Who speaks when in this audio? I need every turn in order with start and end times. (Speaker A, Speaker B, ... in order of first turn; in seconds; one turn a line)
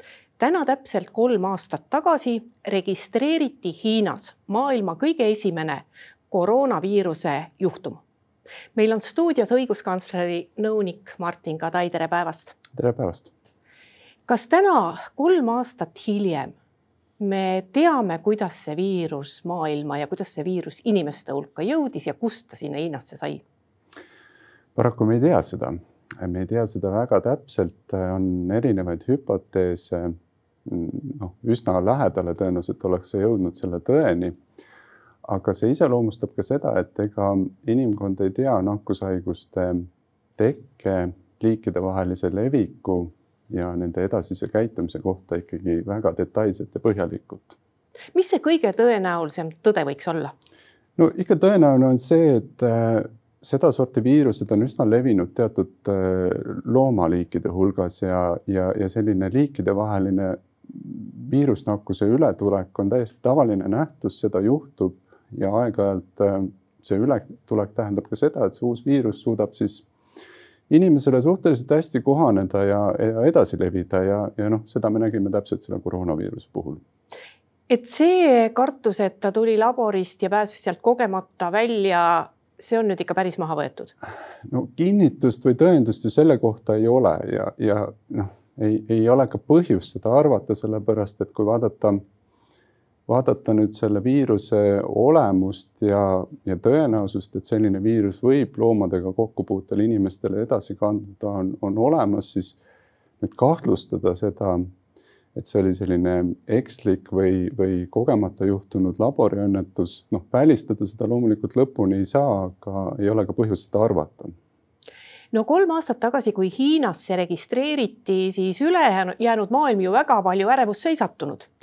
Speaker A: 0.4-8.0
Speaker A: 8.7-12.6
Speaker B: 12.7-13.3
Speaker A: 14.3-16.6
Speaker A: 17.2-23.4
Speaker B: 24.8-34.4
Speaker B: 35.2-47.6
Speaker A: 48.1-50.3
Speaker B: 51.0-69.9
Speaker B: 70.7-76.8
Speaker A: 77.7-83.9
Speaker B: 84.5-92.0
Speaker B: 93.1-102.6
Speaker B: 103.2-104.7
Speaker B: 105.3-114.3
Speaker A: 115.3-121.5